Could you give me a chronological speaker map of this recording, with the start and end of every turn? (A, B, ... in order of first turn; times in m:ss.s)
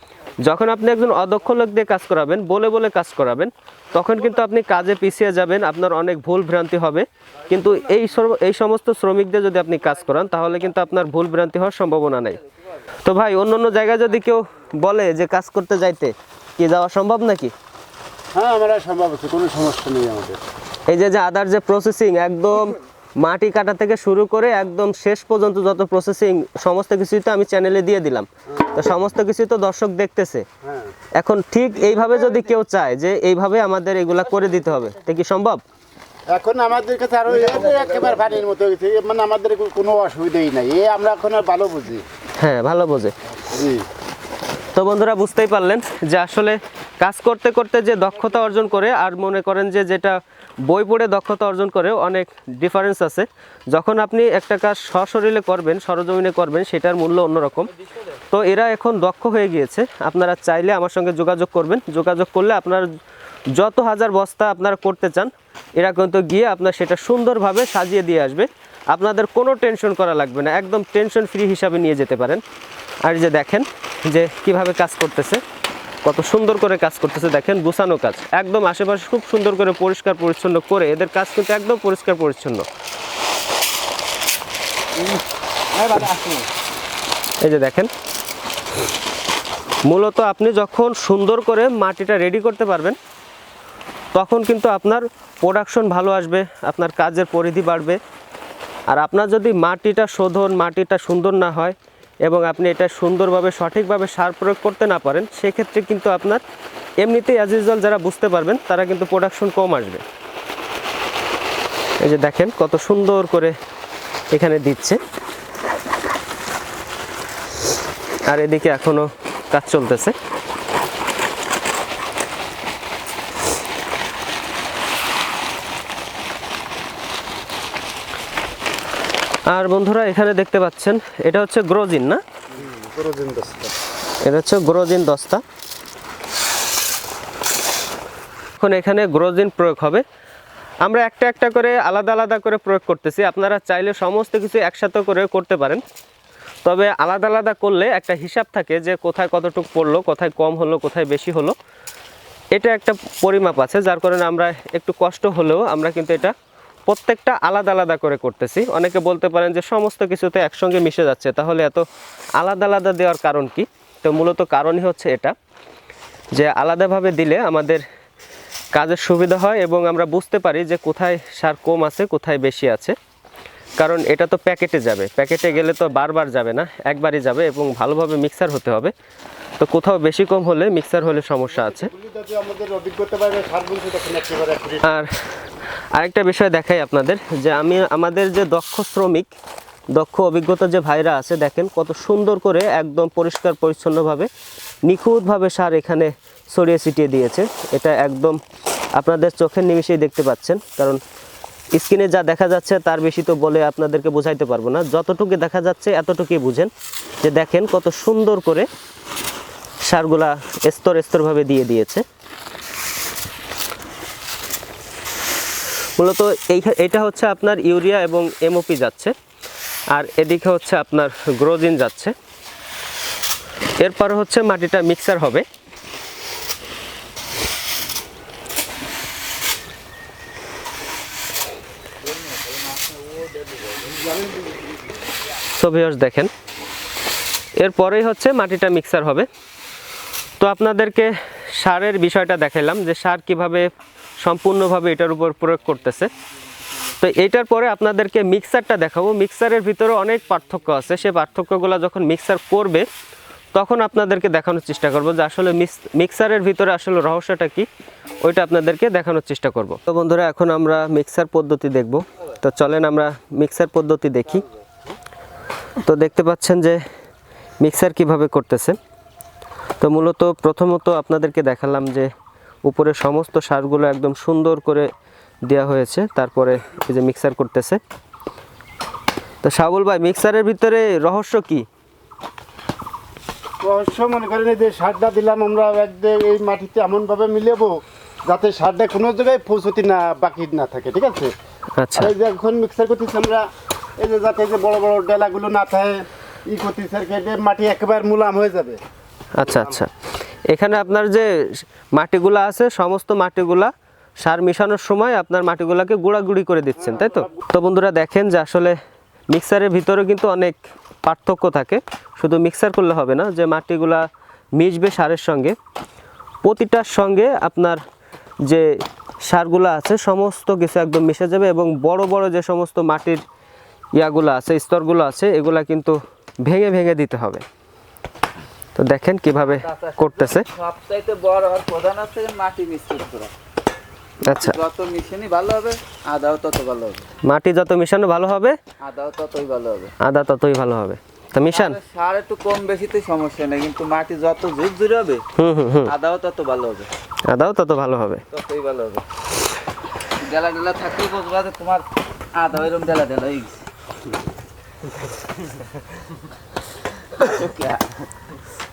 0:00.4-0:12.4 A
0:10.4-0:10.7 B
0:13.0-0:17.5 A
0:18.3-0:20.4 C
0:20.9-0:30.5 A
0:30.6-0:30.9 C
0:31.2-0:35.6 A
0:36.3-0:42.0 C
0:37.3-0:38.4 B
0:42.4-0:43.1 A
0:43.4-0:43.8 C
0:44.7-0:57.7 A
0:58.3-1:02.9 A
1:03.5-1:12.4 A
1:13.0-1:15.4 A
1:16.0-1:22.6 A
1:25.0-1:26.5 B
1:27.4-1:27.9 A
1:29.9-1:33.0 A
1:34.1-1:38.0 A
1:38.9-1:46.4 A
1:47.0-1:50.0 A
1:52.0-1:53.5 A
1:54.3-1:55.0 A
1:58.3-2:00.2 A
2:09.5-2:12.2 A
2:12.6-2:13.7 C
2:14.2-2:15.4 A
2:18.6-2:20.0 A
2:20.8-2:25.8 A
2:26.6-2:31.6 A
2:32.5-2:36.3 A
2:36.9-2:41.8 A
2:42.4-2:45.4 A
2:46.3-2:47.8 A
2:48.7-2:53.0 A
2:53.8-2:58.9 A
2:59.6-3:01.9 A
3:01.5-3:04.9 C
3:04.8-3:05.1 A
3:05.9-3:09.3 A
3:09.9-3:14.3 A
3:14.9-3:18.4 A
3:19.0-3:21.0 A
3:21.7-3:26.7 A
3:27.2-3:28.7 A
3:29.8-3:32.0 A
3:36.0-3:39.1 A
3:39.9-3:42.2 A
3:43.8-3:45.4 A
3:52.0-3:54.2 B
3:55.5-3:56.3 A
3:57.6-3:59.3 A
4:00.4-4:03.7 A
4:04.2-4:06.1 A
4:07.0-4:12.9 A
4:13.6-4:17.7 A
4:18.2-4:24.5 A
4:25.8-4:26.8 A
4:27.6-4:28.8 A
4:29.8-4:32.1 A
4:32.6-4:34.9 A
4:35.4-4:37.8 A
4:39.4-4:41.7 A
4:43.6-4:51.3 C
4:51.8-4:52.1 A
4:52.0-4:53.4 C
4:54.0-4:58.8 C
4:59.4-4:59.9 A
5:00.5-5:08.8 A
5:06.8-5:07.4 C
5:09.3-5:15.6 A
5:16.4-5:17.8 A
5:18.4-5:18.7 A
5:19.2-5:23.2 A
5:24.0-5:27.4 A
5:28.8-5:30.5 A
5:29.4-5:33.3 B
5:34.2-5:34.6 A
5:34.3-5:37.1 B
5:37.2-5:38.6 A
5:38.8-5:39.9 B
5:40.0-5:41.8 A
5:41.5-5:45.2 B
5:45.4-5:45.9 A
5:45.9-5:46.9 B
5:47.3-5:48.2 A
5:48.3-5:49.0 B
5:50.2-5:53.6 B
5:57.2-5:58.1 B